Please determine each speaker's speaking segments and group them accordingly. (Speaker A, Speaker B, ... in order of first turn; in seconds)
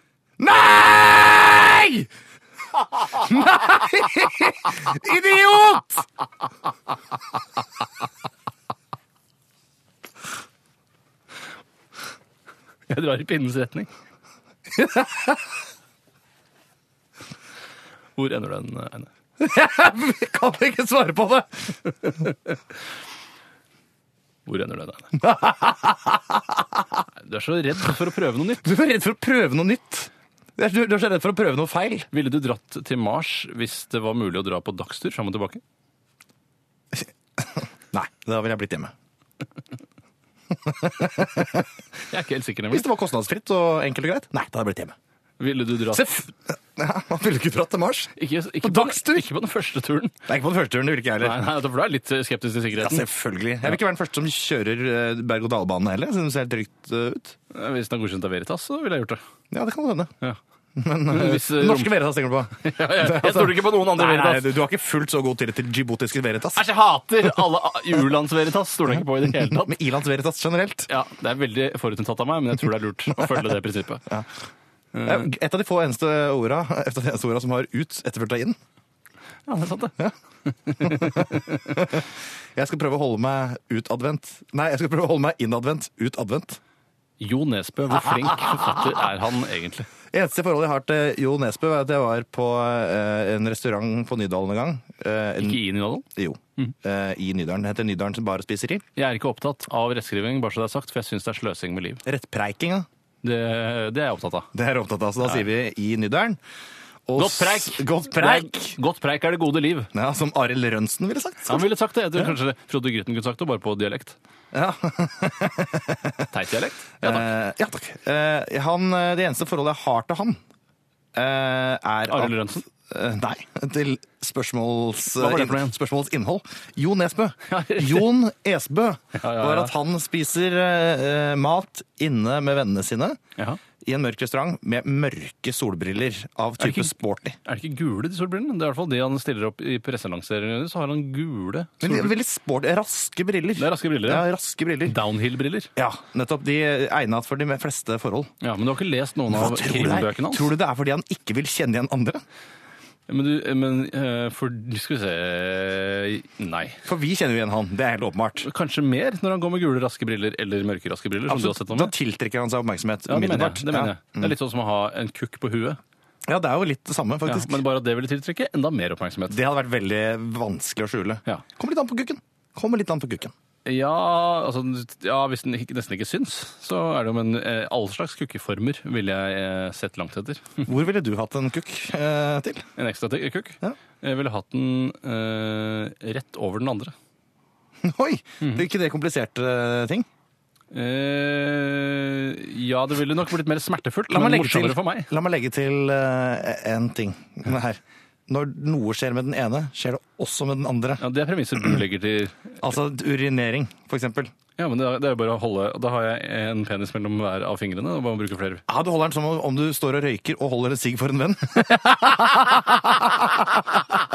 Speaker A: 0.4-2.1, 3.0-6.0, 14.7-15.4, 19.4-21.8, 25.2-26.8, 28.6-32.1, 36.9-38.9, 40.6-41.7, 42.7-44.9, 45.9-49.3, 50.3-51.4, 52.7-57.4, 59.5-60.1, 60.8-66.6, 69.0-70.9, 75.0-78.6, 80.8-86.6, 88.2-88.5, 90.1-95.6, 96.1-98.8, 102.0-102.9, 104.5-106.4, 107.1-108.7, 109.9-112.3, 114.5-116.3, 117.0-120.4, 121.1-133.2, 133.8-137.3, 141.8-145.0, 145.8-148.3, 149.3-152.2, 156.8-158.5, 161.3-164.3, 166.2-167.6, 169.3-173.3, 180.7-182.7, 187.8-190.1, 194.1-201.0, 202.6-204.3, 208.7-213.8
Speaker B: 12.9-13.9, 18.2-19.1, 24.4-25.2, 27.2-28.7, 32.1-35.6, 42.1-42.9, 45.4-46.1, 48.1-50.2, 51.2-53.1, 57.5-59.2, 61.1-62.0, 62.5-64.5, 66.5-69.8, 70.9-74.1, 74.9-75.3, 79.5-81.8, 87.2-89.9, 95.4-96.0, 99.0-102.0, 103.2-104.5, 107.2-109.9, 111.5-114.2, 116.3-117.3, 122.1-122.7, 125.1-125.7, 127.5-128.1, 129.1-129.7, 136.6-142.1, 143.6-144.2, 144.8-145.7, 148.4-150.5, 153.1-156.8, 158.4-161.9, 163.1-165.8, 167.2-169.4, 173.6-180.7, 182.8-186.9, 190.7-195.1, 201.0-202.6, 204.6-208.6